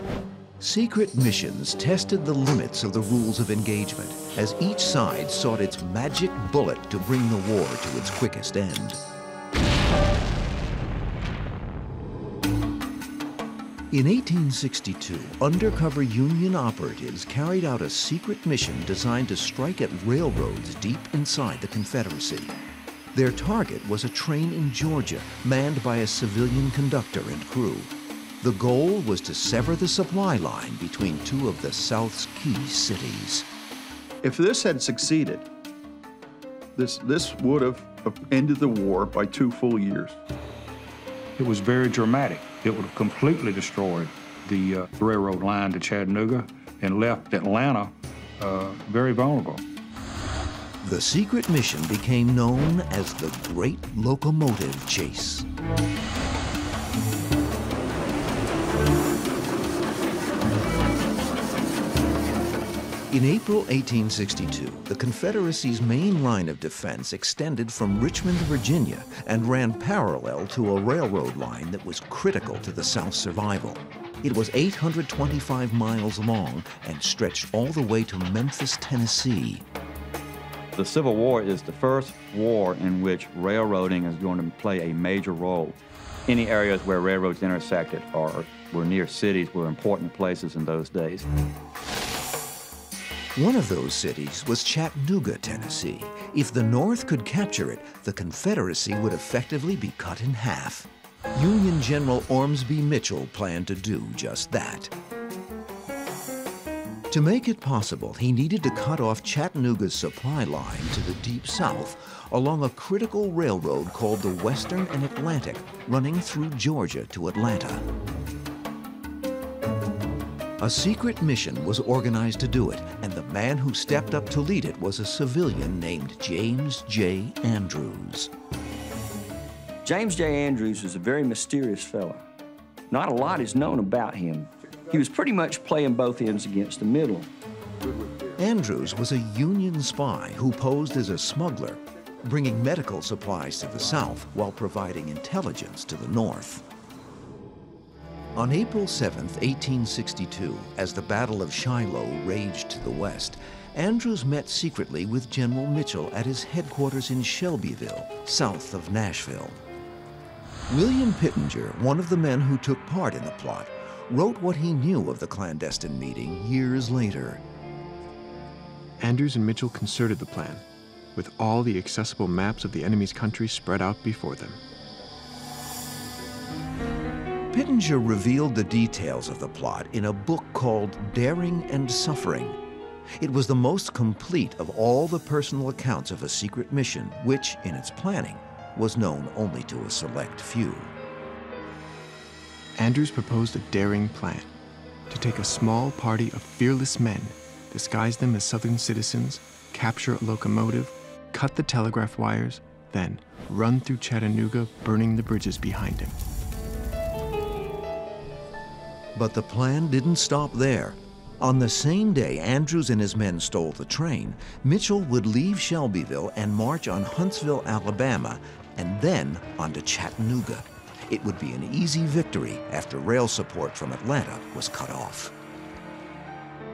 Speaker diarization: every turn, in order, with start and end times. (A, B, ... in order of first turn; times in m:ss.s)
0:00.6-0:09.0 A
0:13.9-0:22.6 A
0:23.1-0:33.5 A
0:34.2-0:35.4 B
0:36.8-0:40.2 B
0:41.4-0:49.6 C
0:50.8-0:55.5 A
1:03.1-1:19.6 A
1:20.8-1:31.2 D
1:33.3-1:44.9 A
1:47.1-1:57.8 A
2:00.6-2:08.3 A
2:09.8-2:12.2 E
2:12.9-2:17.3 E
2:18.4-2:26.6 A
2:28.3-2:39.6 A
2:40.7-2:47.4 A
2:49.0-2:54.6 F
2:57.5-3:02.6 A
3:03.2-3:10.9 A
3:12.8-3:14.5 F
3:15.1-3:26.2 F
3:29.1-3:45.3 A